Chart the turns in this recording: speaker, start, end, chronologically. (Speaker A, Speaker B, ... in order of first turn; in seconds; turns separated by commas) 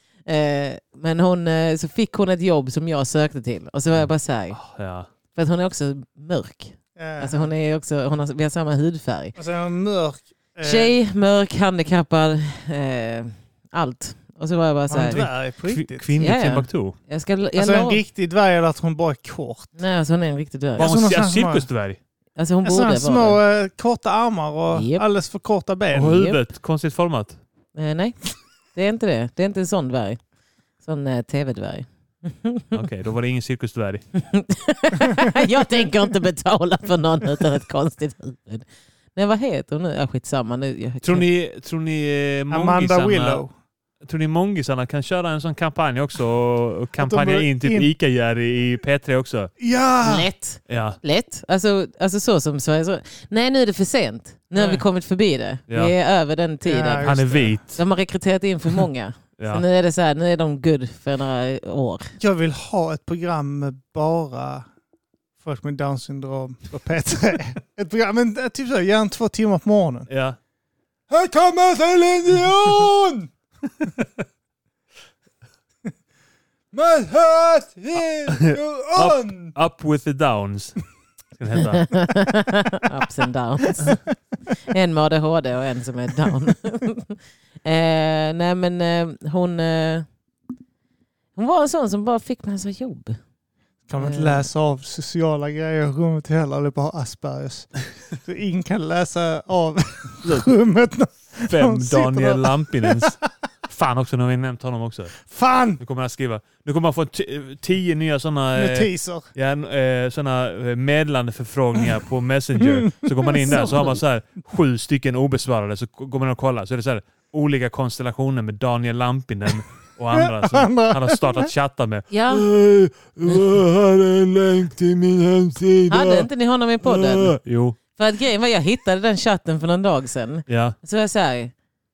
Speaker A: 0.3-4.6, Speaker B: 4.0-5.1, Speaker A: 5.3-9.3, Speaker C: 7.0-7.5, Speaker C: 9.3-10.9, Speaker A: 10.6-15.3, Speaker C: 14.9-16.1, Speaker B: 15.1-16.9, Speaker A: 16.2-18.0, Speaker C: 17.6-19.7, Speaker A: 19.8-20.9, Speaker C: 20.8-21.7, Speaker B: 20.8-22.0, Speaker A: 22.4-23.4, Speaker C: 22.6-26.3, Speaker A: 24.7-25.0, Speaker B: 25.9-27.4, Speaker A: 26.1-26.4, Speaker A: 27.7-28.2, Speaker A: 28.7-30.2, Speaker A: 30.8-32.8, Speaker B: 32.7-34.0, Speaker A: 34.1-41.2, Speaker B: 41.0-43.4, Speaker C: 42.5-43.5, Speaker B: 44.0-49.5, Speaker C: 47.0-47.9, Speaker C: 49.6-50.3, Speaker A: 50.0-57.1, Speaker B: 50.7-51.0, Speaker C: 54.5-54.8, Speaker C: 56.6-57.6, Speaker B: 57.0-57.8, Speaker A: 57.7-62.1, Speaker B: 59.4-59.6, Speaker C: 62.2-64.7, Speaker C: 65.4-70.1, Speaker B: 70.1-70.4, Speaker C: 71.1-73.3, Speaker C: 76.7-79.5, Speaker B: 78.3-80.8, Speaker B: 81.3-81.9, Speaker A: 81.6-90.1, Speaker A: 91.3-93.2, Speaker C: 93.9-103.1, Speaker A: 94.0-94.5, Speaker B: 100.2-100.5, Speaker B: 101.5-105.3, Speaker C: 105.2-105.8, Speaker B: 105.8-126.3, Speaker C: 108.5-109.3, Speaker C: 112.6-113.8, Speaker C: 120.1-121.5, Speaker A: 122.1-122.5, Speaker A: 125.9-127.4, Speaker B: 126.8-127.8, Speaker A: 127.9-131.5, Speaker B: 130.5-130.7